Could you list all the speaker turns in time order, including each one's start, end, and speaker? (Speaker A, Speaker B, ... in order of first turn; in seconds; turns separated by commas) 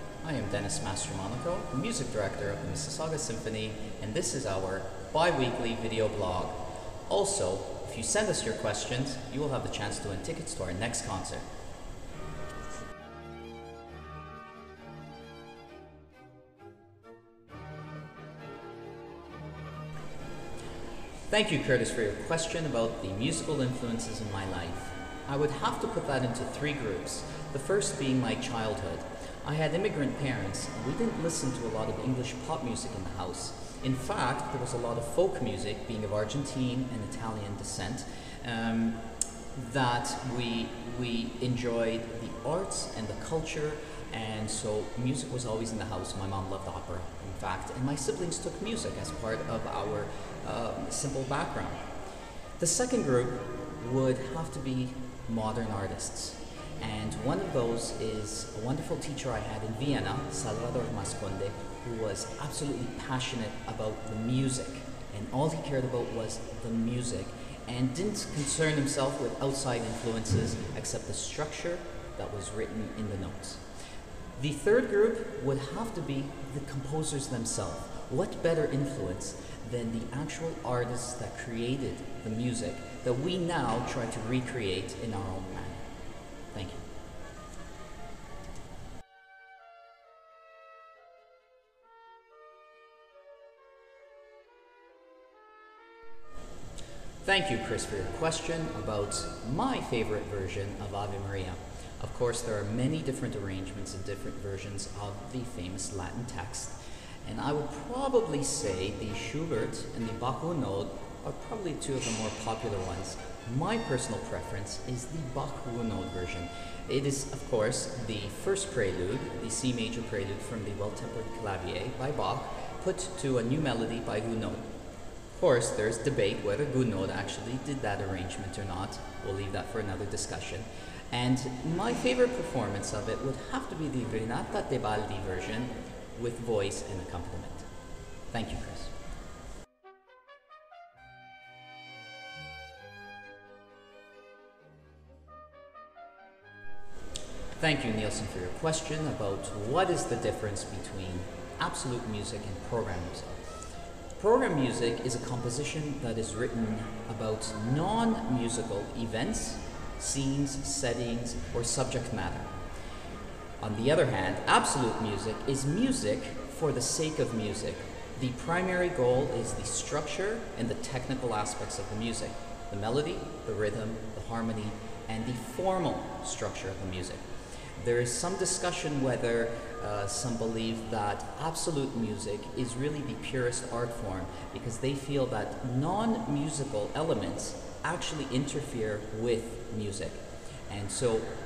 Speaker A: 0.2-11.4, Speaker A: 21.3-39.0, Speaker A: 39.5-51.9, Speaker A: 52.6-73.6, Speaker A: 74.3-85.8, Speaker A: 86.5-86.8, Speaker A: 97.2-124.7, Speaker A: 125.3-137.7, Speaker A: 138.3-138.9, Speaker A: 147.6-153.5, Speaker A: 154.2-162.5, Speaker A: 163.6-177.2, Speaker A: 177.7-191.3